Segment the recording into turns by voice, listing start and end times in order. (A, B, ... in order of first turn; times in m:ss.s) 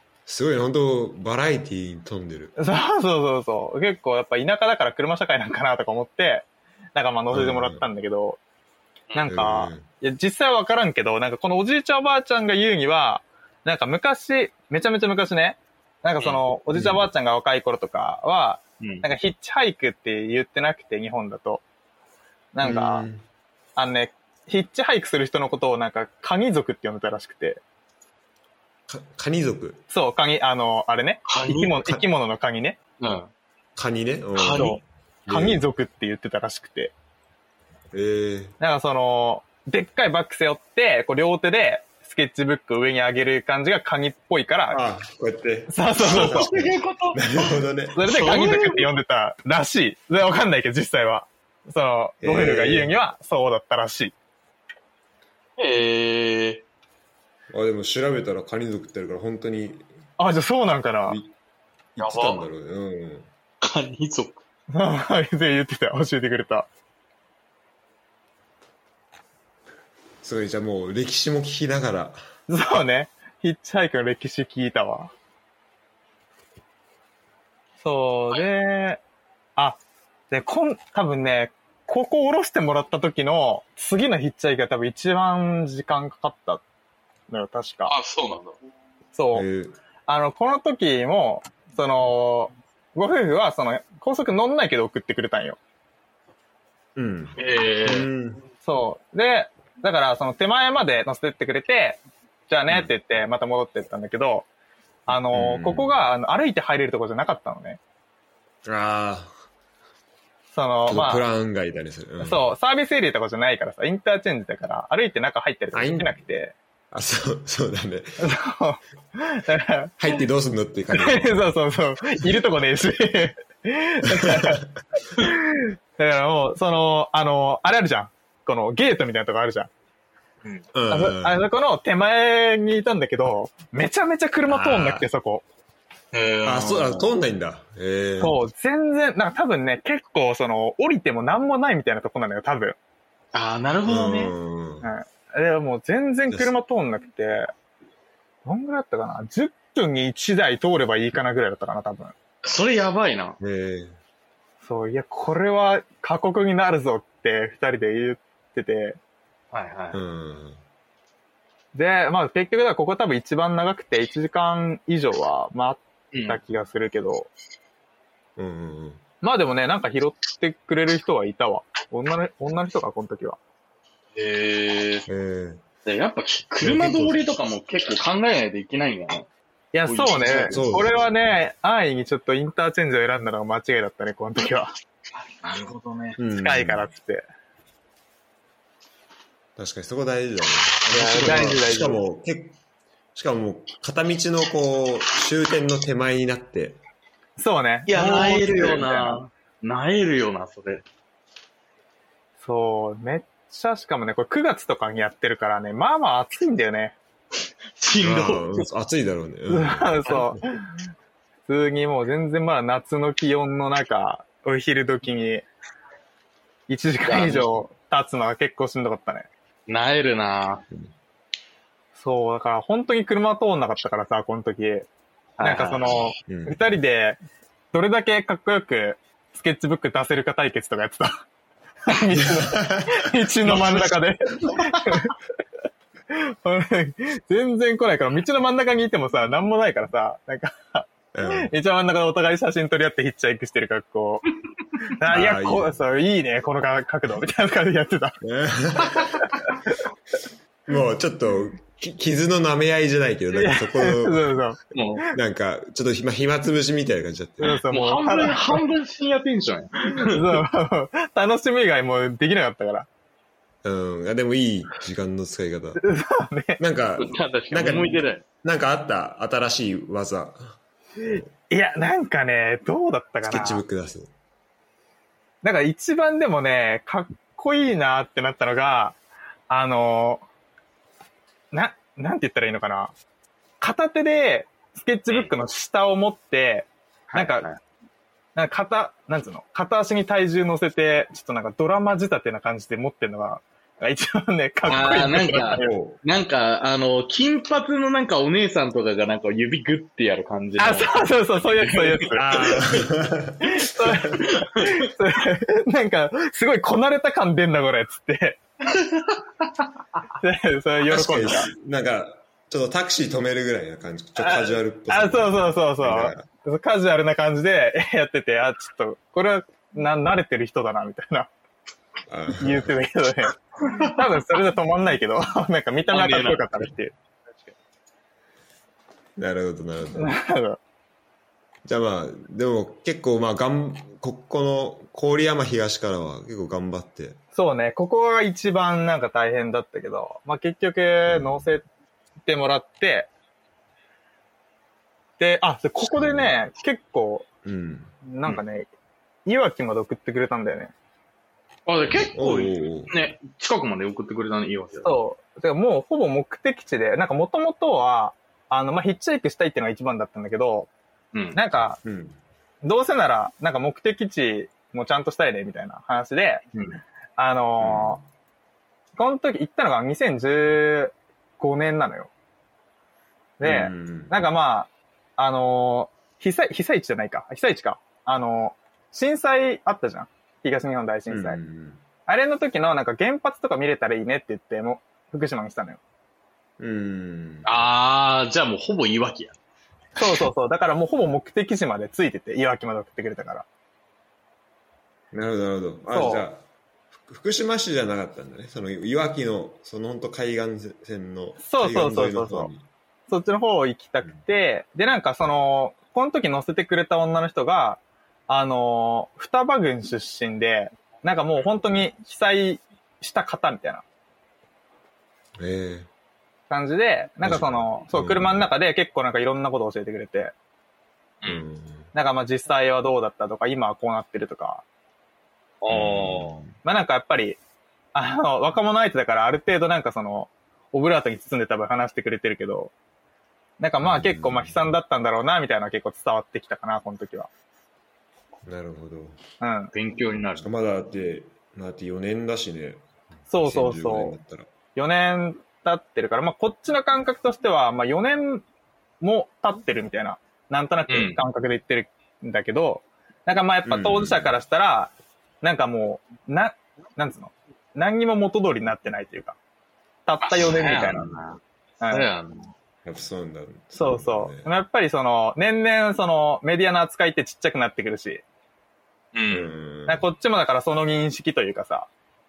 0:00.3-0:02.5 A
0:02.6-0:08.4 B
0:07.3-0:07.8 A
0:09.1-0:21.6 B
0:09.2-0:09.9 A
0:16.7-0:17.1 A
0:18.8-0:19.1 C
0:22.5-0:23.0 B
0:22.6-0:23.2 A
0:23.8-0:27.6 B
0:28.9-0:29.8 A
0:29.9-0:32.8 B
0:31.2-0:31.8 C
0:33.0-0:33.3 C
0:33.8-0:35.6 A
0:34.4-0:34.8 C
0:34.6-0:36.9 B
0:37.9-0:38.6 A
0:38.6-0:44.8 B
0:44.7-0:48.1 A
0:45.7-0:46.5 B
0:46.0-0:48.9 C
0:47.9-0:54.1 B
0:52.2-0:52.9 A
0:55.6-0:56.6 C
0:57.5-0:59.9 A
1:00.2-1:01.2 B
1:02.0-1:03.3 A
1:02.0-1:02.4 C
1:03.6-1:04.4 C
1:04.7-1:06.7 B
1:10.2-1:12.2 A
1:12.5-1:15.1 B
1:17.8-1:19.0 B
1:19.6-1:26.6 B
1:27.3-1:27.9 B
1:27.9-1:28.6 C
1:29.1-1:29.5 B
1:29.3-1:29.8 A
1:30.1-1:35.6 B
1:37.0-1:38.4 A
1:37.4-1:38.1 C
1:38.6-1:44.5 B
1:45.1-1:47.8 B
1:45.1-1:46.0 A
1:48.6-1:49.3 A
1:50.5-1:51.2 B
1:50.8-1:52.5 A
1:52.2-1:56.5 B
1:55.7-1:56.2 A
1:56.9-1:58.1 A
1:58.2-2:00.0 B
2:00.0-2:01.5 A
2:00.9-2:04.6 B
2:04.1-2:04.8 A
2:05.2-2:09.7 B
2:10.7-2:11.4 A
2:10.9-2:15.4 B
2:14.5-2:15.1 A
2:16.1-2:17.1 C
2:16.4-2:18.4 A
2:18.2-2:22.8 B
2:23.3-2:24.3 C
2:23.8-2:24.9 A
2:24.8-2:27.5 B
2:28.4-2:32.1 B
2:32.4-2:33.4 C
2:33.4-2:34.0 A
2:34.6-2:39.0 B
2:39.5-2:40.0 C
2:39.9-2:40.6 A
2:41.7-2:47.3 B
2:46.1-2:46.4 C
2:48.4-2:49.0 A
2:49.2-2:53.4 B
2:54.1-2:55.1 C
2:55.1-2:55.6 A
2:55.8-2:59.3 C
2:56.6-2:57.2 A
2:59.7-3:04.7 B
2:59.8-3:00.6 C
3:00.5-3:01.0 A
3:05.1-3:06.2 C
3:06.2-3:06.9 A
3:06.4-3:07.2 B
3:09.6-3:12.6 A
3:10.9-3:12.0 B
3:13.1-3:16.8 A
3:17.4-3:19.2 B
3:17.9-3:20.8 C
3:22.4-3:27.0 B
3:27.8-3:28.6 C
3:28.0-3:30.4 A
3:29.5-3:30.7 B
3:31.5-3:35.4 B
3:36.7-3:39.3 B
3:37.0-3:37.5 C
3:39.7-3:40.6 C
3:42.0-3:44.9 B
3:45.4-3:46.0 C
3:45.4-3:47.2 B
3:46.3-3:46.6 A
3:47.7-3:51.2 B
3:51.9-3:55.1 B
3:52.2-3:53.0 A
3:53.4-3:53.9 C
3:56.1-4:04.2 B
4:01.1-4:01.5 A
4:05.0-4:08.2 B
4:05.1-4:05.8 A
4:08.2-4:09.2 A
4:09.4-4:09.8 B
4:10.7-4:14.4 A
4:13.3-4:14.6 B
4:14.7-4:15.0 C
4:15.1-4:17.6 A
4:17.4-4:18.6 B
4:17.4-4:20.4 C
4:20.0-4:22.9 B
4:23.6-4:25.8 A
4:25.8-4:26.6 B
4:26.6-4:31.2 A
4:27.0-4:28.2 C
4:31.1-4:33.6 B
4:33.2-4:34.1 A
4:35.4-4:39.0 B
4:39.5-4:40.2 B
4:41.5-4:42.9 B
4:43.6-4:47.5 B
4:47.1-4:47.6 C
4:48.4-4:55.7 B
4:54.7-5:02.6 C
4:55.6-4:56.0 A
5:00.6-5:02.6 B
5:02.2-5:04.2 A
5:03.4-5:08.4 B
5:04.4-5:04.8 C
5:08.7-5:09.6 C
5:10.2-5:11.5 B
5:10.9-5:16.3 A
5:14.2-5:21.3 B
5:22.1-5:22.7 A
5:22.4-5:26.9 B
5:25.9-5:26.7 C
5:29.2-5:30.1 A
5:29.9-5:30.6 B
5:31.6-5:37.2 A
5:37.3-5:41.6 B
5:41.1-5:41.5 A
5:42.2-5:43.1 B
5:45.2-5:47.2 B
5:45.9-5:46.3 A
5:47.4-5:48.0 A
5:48.0-5:48.7 B
5:49.2-5:50.7 B
5:51.7-5:54.9 C
5:52.1-5:52.9 A
5:54.8-6:00.7 B
6:01.1-6:01.4 C
6:01.3-6:01.8 B
6:01.8-6:02.2 A
6:02.6-6:06.4 B
6:06.5-6:06.8 C
6:07.2-6:08.0 B
6:07.6-6:08.0 A
6:09.0-6:12.1 B
6:13.4-6:21.4 B
6:13.4-6:14.2 A
6:21.1-6:21.8 A
6:22.1-6:25.8 B
6:26.6-6:27.6 A
6:27.4-6:29.4 C
6:30.0-6:33.4 B
6:35.1-6:42.6 A
6:35.9-6:36.2 B
6:41.4-6:42.5 B
6:43.1-6:53.8 B
6:55.4-6:55.9 A
6:56.5-7:00.3 B
6:57.2-6:58.5 A
7:01.2-7:01.9 A
7:01.9-7:04.6 B
7:05.6-7:06.4 C
7:05.7-7:06.5 A
7:06.6-7:07.4 B
7:07.9-7:12.7 B
7:13.6-7:17.3 B
7:13.8-7:14.7 A
7:18.4-7:19.2 A
7:19.4-7:19.7 B
7:19.7-7:20.4 C
7:20.4-7:24.5 A
7:23.3-7:24.2 B
7:24.8-7:28.4 B
7:29.0-7:39.4 B
7:30.9-7:31.2 C
7:33.6-7:34.4 A
7:40.0-7:41.1 B
7:40.2-7:42.5 C
7:41.8-7:42.1 B
7:42.8-7:44.5 A
7:43.7-7:48.2 B
7:49.1-7:49.5 C
7:49.3-7:50.0 A
7:49.8-7:51.9 B